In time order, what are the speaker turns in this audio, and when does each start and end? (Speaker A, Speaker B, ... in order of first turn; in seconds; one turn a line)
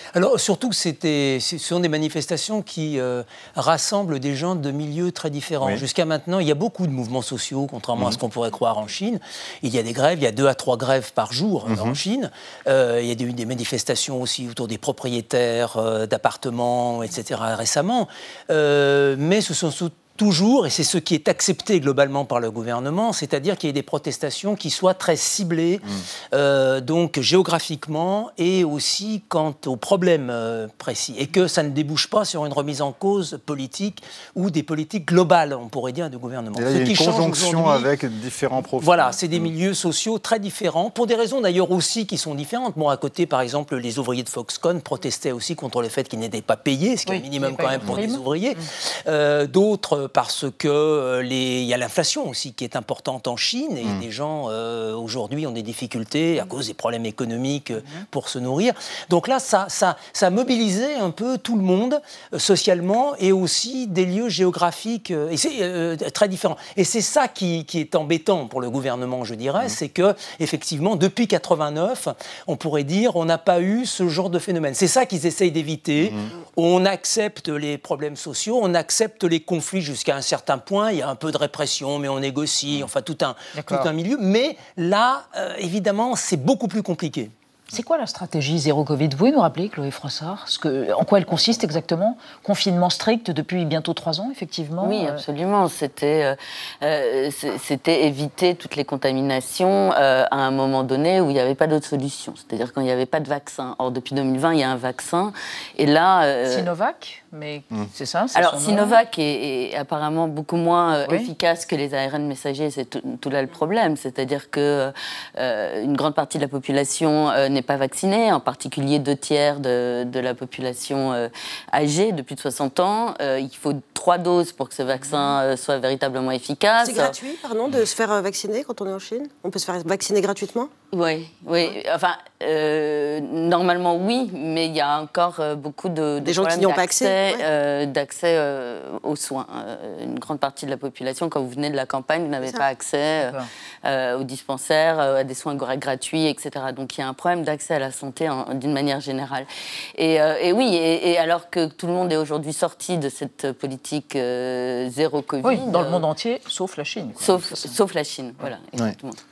Speaker A: 0.1-37.9
Speaker B: 11.7-12.0
Speaker B: 36.5-39.5
Speaker A: 38.8-87.3
Speaker C: 47.1-48.2
Speaker B: 76.0-76.3
Speaker C: 83.5-83.9
Speaker C: 87.7-95.2
Speaker D: 94.8-106.7
Speaker C: 106.5-109.0
Speaker D: 108.3-127.2
Speaker C: 111.0-111.3
Speaker E: 126.8-130.7
Speaker D: 130.9-156.1
Speaker E: 136.2-137.4
Speaker C: 143.2-143.5
Speaker C: 155.4-157.8
Speaker D: 157.2-159.2